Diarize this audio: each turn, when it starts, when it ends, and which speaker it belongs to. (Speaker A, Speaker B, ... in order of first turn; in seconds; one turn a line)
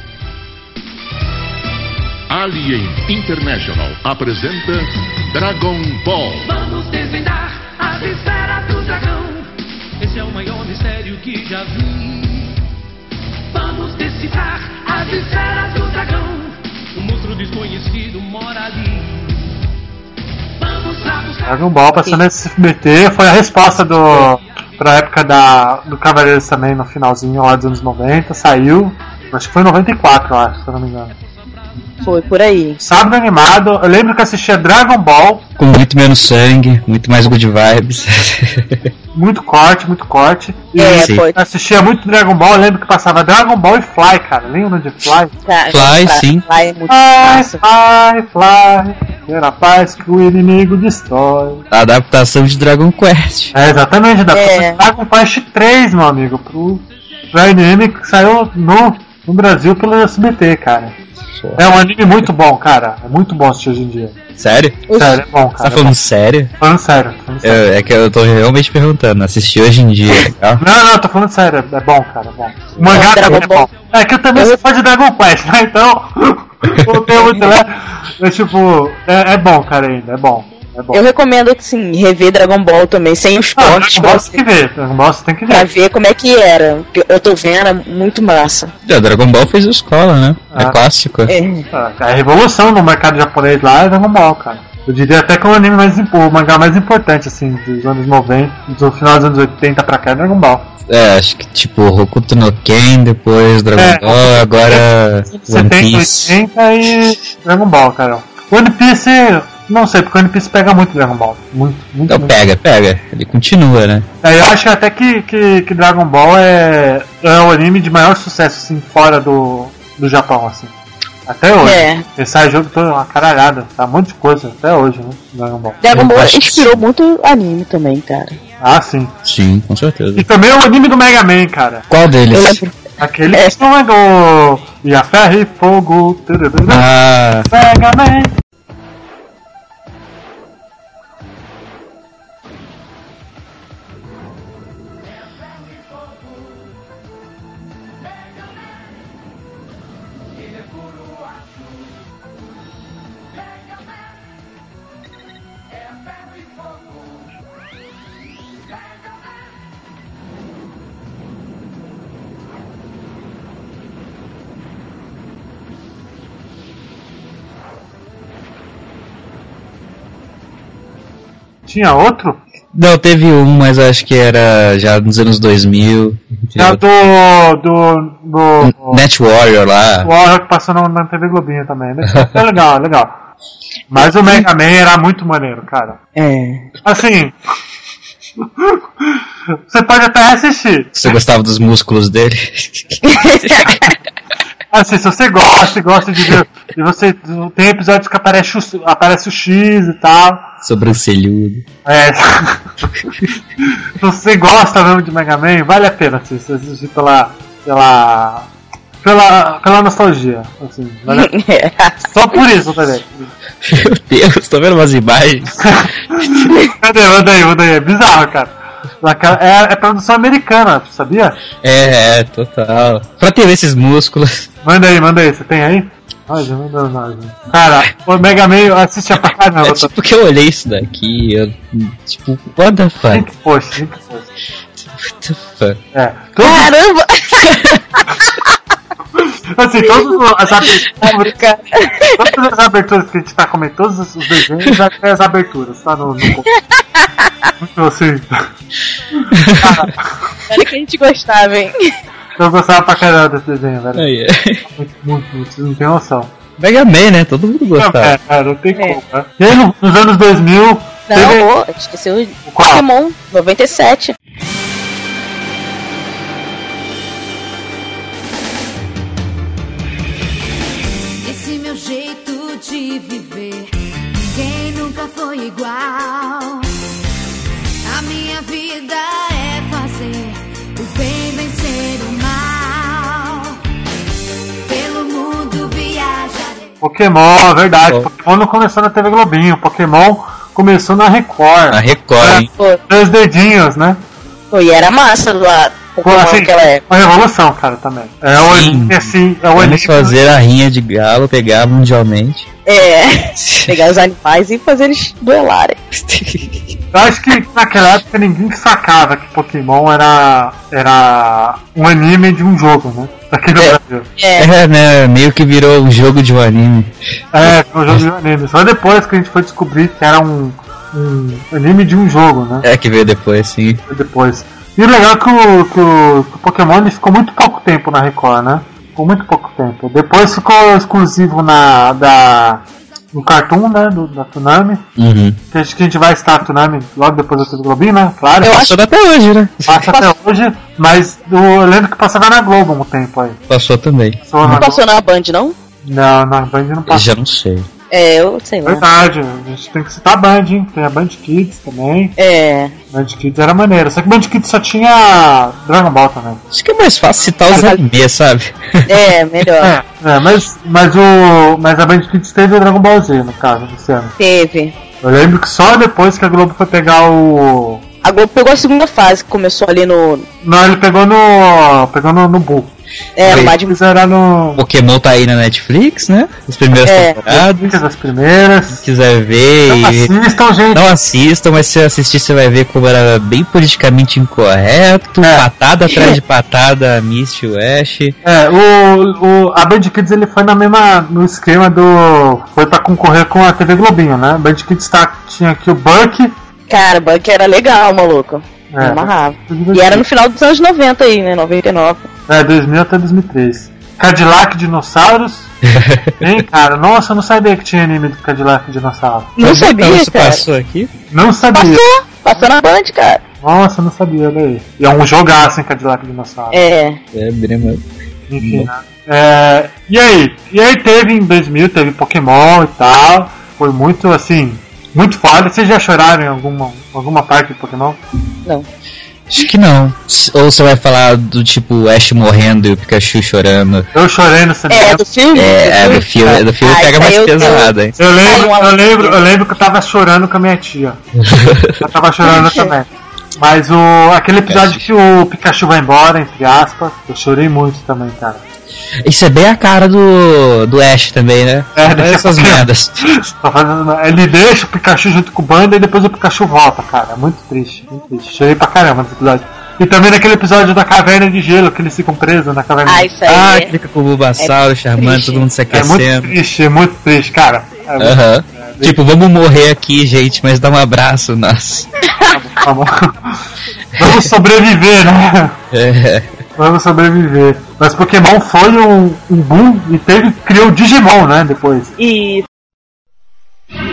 Speaker A: 2.3-6.5
Speaker B: 6.4-12.6
Speaker B: 13.5-19.5
Speaker B: 20.6-21.6
Speaker C: 21.4-31.1
Speaker D: 32.0-32.8
Speaker C: 32.8-35.5
Speaker E: 35.6-38.9
Speaker C: 39.1-45.3
Speaker D: 40.8-41.4
Speaker E: 40.9-41.2
Speaker D: 45.5-47.6
Speaker E: 45.7-46.4
Speaker C: 46.9-51.6
Speaker E: 51.7-53.5
Speaker C: 53.5-61.0
Speaker D: 54.3-54.8
Speaker E: 61.4-61.6
Speaker C: 61.6-64.2
Speaker E: 64.4-64.8
Speaker D: 64.9-65.2
Speaker C: 64.9-66.0
Speaker E: 65.6-66.5
Speaker C: 66.6-67.6
Speaker E: 67.4-70.6
Speaker C: 70.6-81.0
Speaker E: 72.8-73.0
Speaker D: 72.9-73.7
Speaker D: 77.1-77.5
Speaker D: 80.9-84.4
Speaker C: 83.6-85.7
Speaker D: 85.5-88.7
Speaker E: 88.8-91.3
Speaker C: 90.5-90.8
Speaker D: 91.3-91.7
Speaker C: 91.7-100.7
Speaker E: 100.9-106.3
Speaker C: 103.8-112.4
Speaker E: 112.1-114.0
Speaker C: 114.2-120.7
Speaker C: 121.3-125.8
Speaker D: 121.6-122.0
Speaker D: 125.8-128.4
Speaker E: 125.9-126.8
Speaker C: 128.6-129.1
Speaker E: 129.2-130.3
Speaker C: 130.1-131.8
Speaker E: 131.9-132.6
Speaker D: 132.3-132.7
Speaker C: 133.0-136.9
Speaker E: 136.7-137.5
Speaker C: 137.5-138.3
Speaker C: 171.7-172.4
Speaker E: 172.7-176.8
Speaker C: 176.6-179.0
Speaker E: 178.6-180.1
Speaker C: 180.0-183.1
Speaker C: 183.9-186.0
Speaker D: 186.2-186.7
Speaker C: 186.8-187.3
Speaker C: 188.4-191.1
Speaker E: 190.9-193.7
Speaker D: 193.0-193.9
Speaker C: 194.7-200.5
Speaker E: 200.6-201.6
Speaker C: 201.8-202.7
Speaker C: 203.6-208.5
Speaker C: 209.0-211.3
Speaker D: 211.1-212.0
Speaker C: 212.0-213.3
Speaker E: 213.6-216.3
Speaker C: 215.6-221.4
Speaker E: 221.6-224.5
Speaker C: 224.6-229.9
Speaker E: 229.6-233.3
Speaker C: 233.1-234.3
Speaker E: 234.8-235.8
Speaker C: 235.9-236.7
Speaker D: 236.4-238.0
Speaker C: 239.2-241.4
Speaker D: 240.9-242.3
Speaker C: 242.2-246.5
Speaker D: 246.5-247.4
Speaker C: 247.6-248.4
Speaker C: 249.2-250.1
Speaker E: 249.3-249.9
Speaker D: 250.5-251.9
Speaker C: 252.4-254.1
Speaker E: 253.9-254.7
Speaker C: 254.7-256.3
Speaker E: 256.6-258.2
Speaker C: 257.8-261.5
Speaker D: 258.7-259.0
Speaker D: 261.1-264.1
Speaker C: 262.5-262.8
Speaker F: 271.2-273.7
Speaker F: 274.3-276.6
Speaker F: 277.8-283.5
Speaker F: 284.7-286.7
Speaker C: 286.8-294.0
Speaker E: 291.7-292.5
Speaker D: 294.5-296.8
Speaker C: 296.0-300.1
Speaker E: 298.4-302.5
Speaker D: 302.6-305.8
Speaker E: 303.4-303.8
Speaker E: 305.9-306.7
Speaker C: 306.9-314.1
Speaker D: 313.6-314.5
Speaker E: 314.4-318.0
Speaker C: 317.3-322.6
Speaker E: 322.6-323.8
Speaker C: 323.9-334.8
Speaker E: 335.0-335.4
Speaker C: 335.5-338.7
Speaker E: 338.4-339.9
Speaker C: 339.7-343.4
Speaker E: 343.5-344.6
Speaker C: 344.3-344.8
Speaker D: 344.5-345.5
Speaker C: 345.8-347.0
Speaker E: 346.9-347.7
Speaker D: 347.9-348.8
Speaker C: 348.6-352.1
Speaker D: 352.2-352.7
Speaker C: 352.9-356.4
Speaker E: 356.5-358.9
Speaker D: 358.9-359.7
Speaker C: 359.6-364.1
Speaker D: 364.2-364.7
Speaker C: 365.0-367.8
Speaker D: 368.0-370.2
Speaker C: 370.4-372.7
Speaker D: 373.2-373.7
Speaker E: 373.2-373.5
Speaker C: 373.2-374.6
Speaker E: 374.6-377.8
Speaker D: 376.8-377.2
Speaker C: 377.2-378.8
Speaker E: 378.7-380.1
Speaker C: 379.7-380.9
Speaker E: 380.7-388.1
Speaker C: 385.2-385.4
Speaker C: 388.2-396.3
Speaker D: 396.7-402.1
Speaker C: 398.7-400.0
Speaker C: 402.3-405.5
Speaker E: 405.7-406.4
Speaker C: 406.2-409.3
Speaker D: 409.4-410.5
Speaker E: 409.4-410.9
Speaker C: 411.1-411.8
Speaker D: 411.5-413.2
Speaker C: 413.4-416.6
Speaker D: 416.5-417.0
Speaker E: 417.1-418.7
Speaker C: 418.3-428.0
Speaker E: 429.3-433.9
Speaker C: 433.9-435.0
Speaker D: 434.7-436.1
Speaker E: 435.3-437.9
Speaker D: 436.6-439.2
Speaker C: 437.4-441.0
Speaker E: 441.2-441.9
Speaker C: 441.8-448.4
Speaker D: 442.3-442.7
Speaker E: 444.5-444.9
Speaker E: 449.0-453.2
Speaker C: 451.8-463.1
Speaker D: 462.9-463.7
Speaker E: 463.3-466.4
Speaker D: 464.4-465.5
Speaker C: 465.7-469.0
Speaker E: 468.0-471.9
Speaker D: 472.1-472.4
Speaker C: 472.3-473.4
Speaker C: 473.9-475.6
Speaker E: 475.7-476.4
Speaker C: 476.6-482.0
Speaker D: 482.0-482.4